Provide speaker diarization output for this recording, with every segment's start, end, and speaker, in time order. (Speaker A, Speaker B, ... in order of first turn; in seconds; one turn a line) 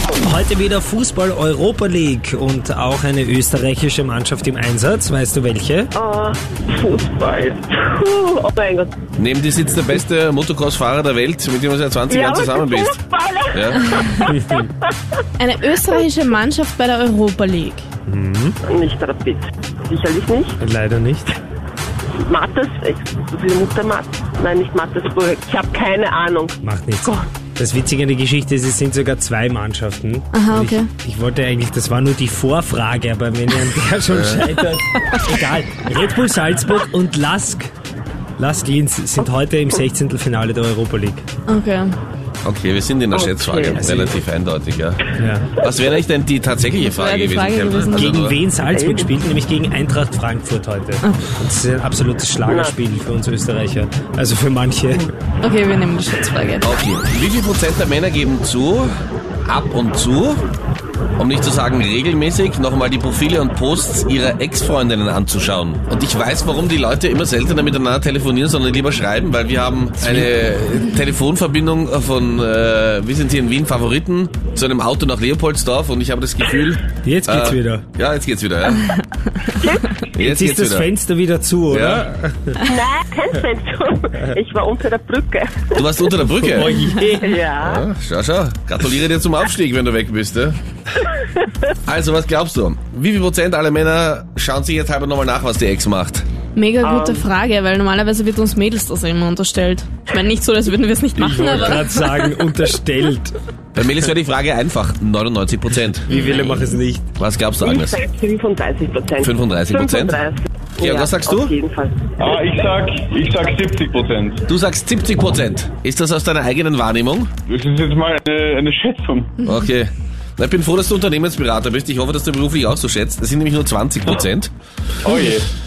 Speaker A: 0.2-5.9
Speaker B: 6.0-8.9
Speaker C: 9.2-13.0
Speaker B: 12.1-14.6
Speaker C: 13.5-13.8
Speaker A: 14.3-14.7
Speaker D: 15.4-17.9
Speaker A: 18.1-18.6
Speaker B: 18.7-20.6
Speaker A: 20.6-21.4
Speaker B: 22.2-27.1
Speaker A: 26.6-37.7
Speaker D: 30.3-30.9
Speaker C: 34.1-34.5
Speaker A: 38.4-41.3
Speaker D: 41.5-42.0
Speaker C: 42.4-45.0
Speaker B: 43.1-43.8
Speaker A: 43.8-44.1
Speaker A: 45.2-45.5
Speaker C: 45.5-48.4
Speaker D: 46.8-48.3
Speaker A: 47.9-55.1
Speaker B: 48.7-49.1
Speaker D: 51.0-51.3
Speaker B: 52.5-52.7
Speaker D: 55.4-56.7
Speaker C: 56.6-58.9
Speaker C: 59.5-60.4
Speaker C: 61.2-78.9
Speaker A: 70.0-70.3
Speaker A: 77.0-77.8
Speaker B: 79.5-80.0
Speaker C: 80.1-80.9
Speaker A: 80.2-82.6
Speaker C: 81.7-82.1
Speaker B: 82.6-85.8
Speaker C: 85.8-86.7
Speaker A: 86.3-87.4
Speaker D: 86.7-87.1
Speaker B: 87.2-87.8
Speaker C: 87.6-90.6
Speaker C: 91.8-96.2
Speaker D: 96.5-102.1
Speaker B: 96.8-97.3
Speaker A: 101.2-103.4
Speaker C: 103.8-106.7
Speaker A: 106.0-107.1
Speaker D: 106.1-106.5
Speaker C: 107.2-108.0
Speaker B: 107.6-112.2
Speaker C: 109.2-110.2
Speaker C: 110.8-111.5
Speaker E: 112.2-114.4
Speaker C: 114.5-117.3
Speaker E: 117.5-119.3
Speaker C: 119.4-124.5
Speaker E: 125.0-125.5